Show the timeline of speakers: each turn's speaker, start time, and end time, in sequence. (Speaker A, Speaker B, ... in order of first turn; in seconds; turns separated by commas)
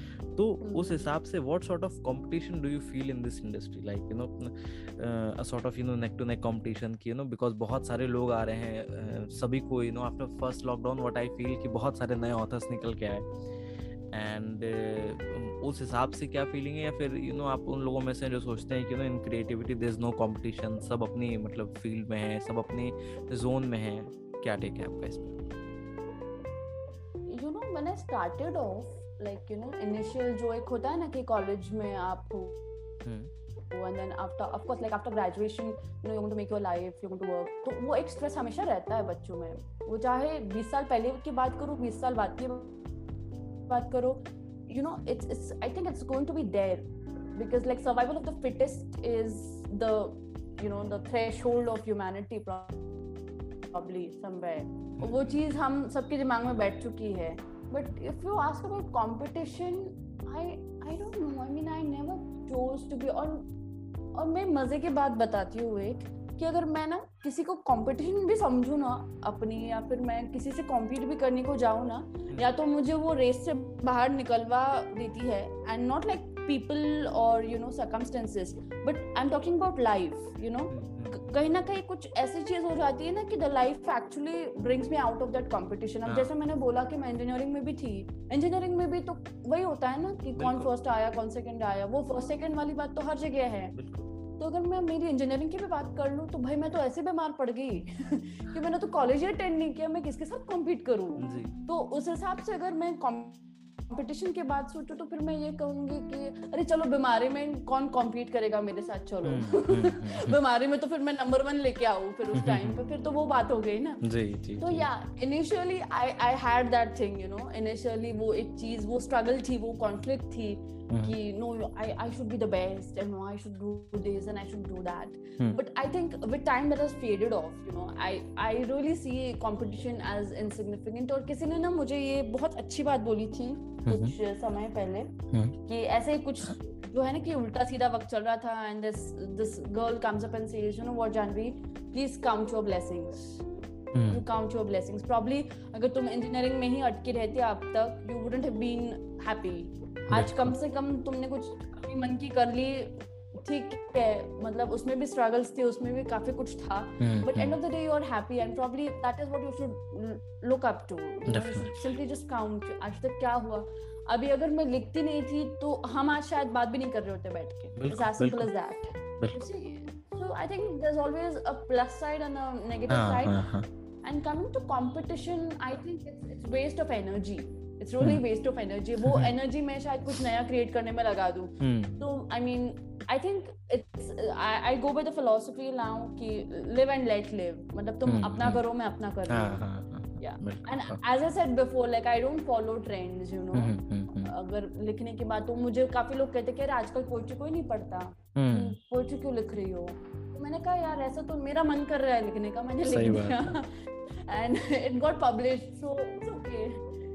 Speaker A: 0.3-13.3, Speaker B: 0.6-1.1, Speaker A: 14.1-25.4, Speaker B: 27.3-32.6, Speaker A: 33.0-33.3, Speaker B: 33.7-42.8, Speaker B: 43.7-52.8, Speaker B: 53.7-63.5, Speaker A: 55.0-55.6, Speaker B: 64.1-93.8, Speaker A: 80.7-81.2, Speaker A: 86.1-86.3, Speaker A: 90.4-90.7, Speaker A: 93.7-94.1, Speaker B: 94.4-114.0, Speaker A: 101.2-101.6, Speaker A: 109.2-110.4, Speaker A: 112.3-112.8, Speaker A: 114.0-114.9, Speaker B: 114.6-143.4, Speaker A: 120.9-121.2, Speaker A: 133.9-134.2, Speaker A: 143.9-144.2, Speaker B: 144.1-173.4, Speaker A: 150.1-150.6, Speaker A: 157.0-157.6, Speaker A: 161.3-161.9, Speaker A: 167.8-168.5, Speaker A: 172.9-173.7, Speaker B: 174.0-189.6, Speaker A: 181.6-182.1, Speaker A: 188.1-188.6, Speaker A: 189.3-191.0, Speaker B: 190.2-206.8, Speaker A: 193.5-194.3, Speaker A: 198.4-198.8, Speaker A: 202.8-203.6